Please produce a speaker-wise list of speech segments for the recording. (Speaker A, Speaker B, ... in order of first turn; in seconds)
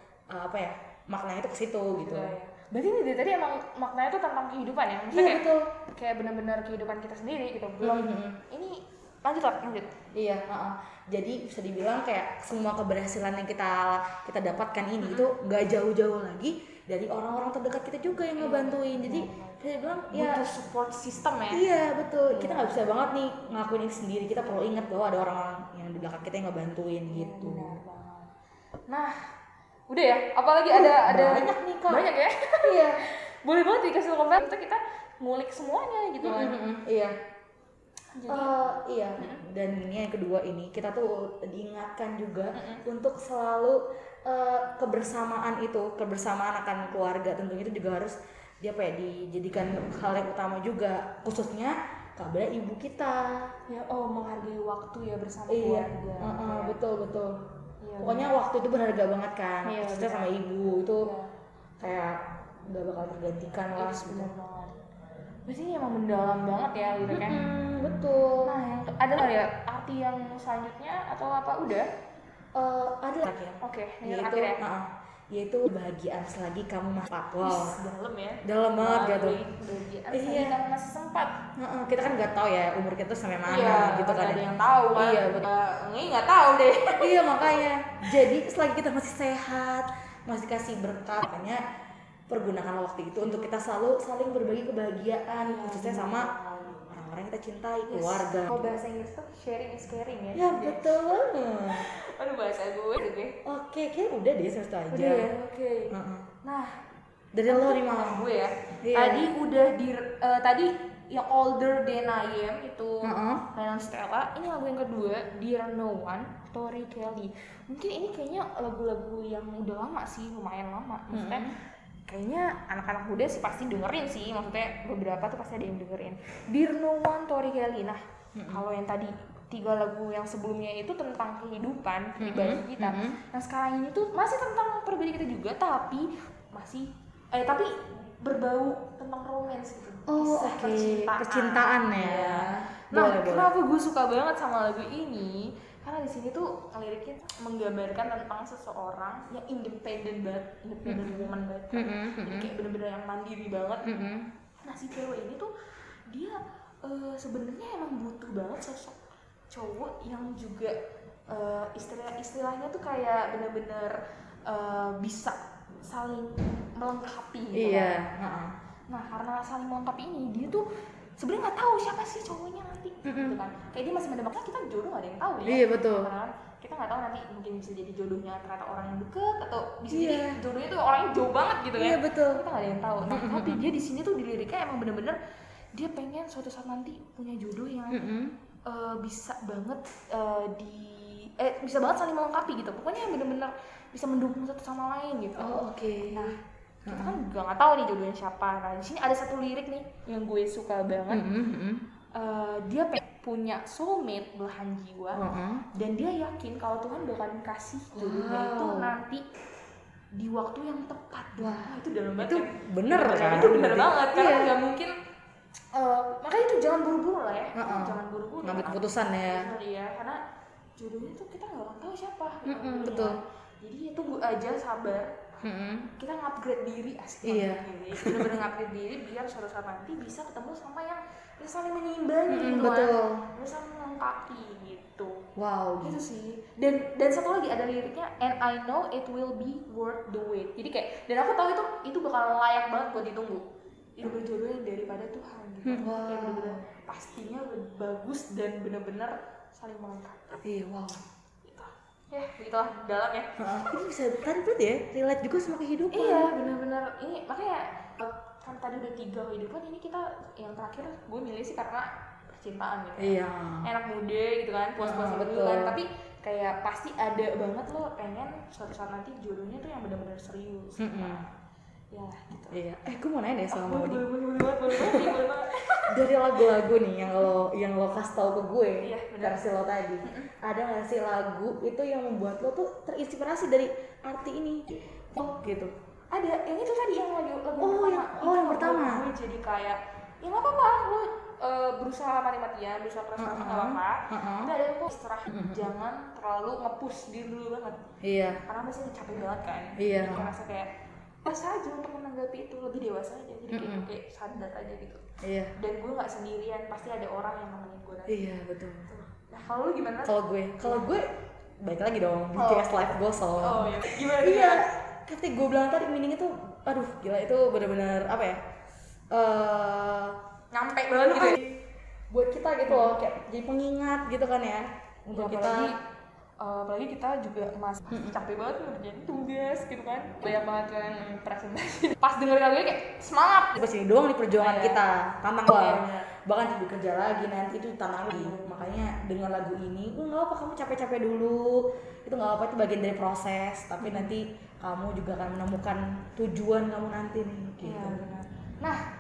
Speaker A: 0.3-2.3, 5.1-5.7, 7.8-8.4, 10.1-20.4, 21.5-27.8, 30.7-32.0, 32.6-33.0, 36.2-37.2, 38.3-53.5, 55.5-57.4, 58.0-61.1, 61.8-64.3, 67.1-68.5, 72.5-77.8, 78.4-79.4, 80.1-80.6, 81.6-85.5, 87.0-91.6, 92.3-98.8, 100.3-101.9, 103.5-105.3, 105.9-106.3, 107.3-108.3, 108.8-109.3, 113.0-113.4, 121.1-121.5, 128.3-128.6, 132.2-133.2, 140.1-143.5, 150.8-152.5, 153.8-154.3, 167.5-168.6, 173.1-173.4, 175.4-176.1, 179.9-180.4, 181.8-182.4, 183.1-183.7, 187.9-188.3, 195.4-196.3, 196.9-197.2, 201.1-201.8, 205.2-205.7, 207.9-208.9, 211.4-214.5, 217.6-219.5, 222.5-223.2, 225.4-225.9, 227.2-228.3, 232.3-233.3, 235.4-236.0, 245.7-246.7, 250.4-251.0, 253.4-256.3, 263.0-263.7, 264.8-265.8, 270.8-271.2, 272.5-274.1, 274.6-275.2, 275.9-285.7, 287.6-289.1, 293.2-294.5, 295.3-295.7, 298.0-298.4, 299.8-300.3, 303.5-303.9, 305.2-305.5, 308.1-308.9, 310.1-311.1, 311.6-318.4, 319.1-320.2, 321.1-325.8, 327.9-328.2, 333.6-348.0
Speaker B: 1.9-9.9, 15.0-15.3, 18.4-21.6, 22.3-22.8, 27.1-28.3, 28.9-29.3, 29.9-36.6, 38.1-38.6, 42.5-42.8, 53.7-56.8, 57.8-58.3, 59.6-60.4, 61.0-61.3, 63.8-64.8, 65.5-67.5, 68.4-71.9, 73.6-74.6, 77.4-81.3, 83.5-87.6, 93.2-93.5, 95.4-96.8, 97.9-101.0, 101.7-103.4, 104.9-106.8, 107.5-121.5, 122.1-153.9, 154.6-155.5, 156.1-159.0, 159.5-160.8, 161.3-168.0, 168.9-170.7, 171.2-185.2, 185.8-188.0, 188.7-201.2, 202.2-205.2, 205.7-209.2, 210.1-214.9, 215.7-220.2, 220.8-225.4, 226.0-235.3, 235.8-243.4, 244.0-250.4, 251.4-253.4, 255.9-271.4, 271.9-272.6, 273.5-276.5, 278.8-279.4, 280.0-280.3, 286.1-297.8, 298.5-300.7, 301.2-305.1, 305.6-308.2, 308.9-310.9, 312.4-312.8, 313.4-314.6, 320.5-321.4, 322.7-322.9, 325.1-325.8, 326.4-333.6, 334.4-334.8, 335.5-336.1, 338.1-338.7, 343.8-344.1, 347.6-348.8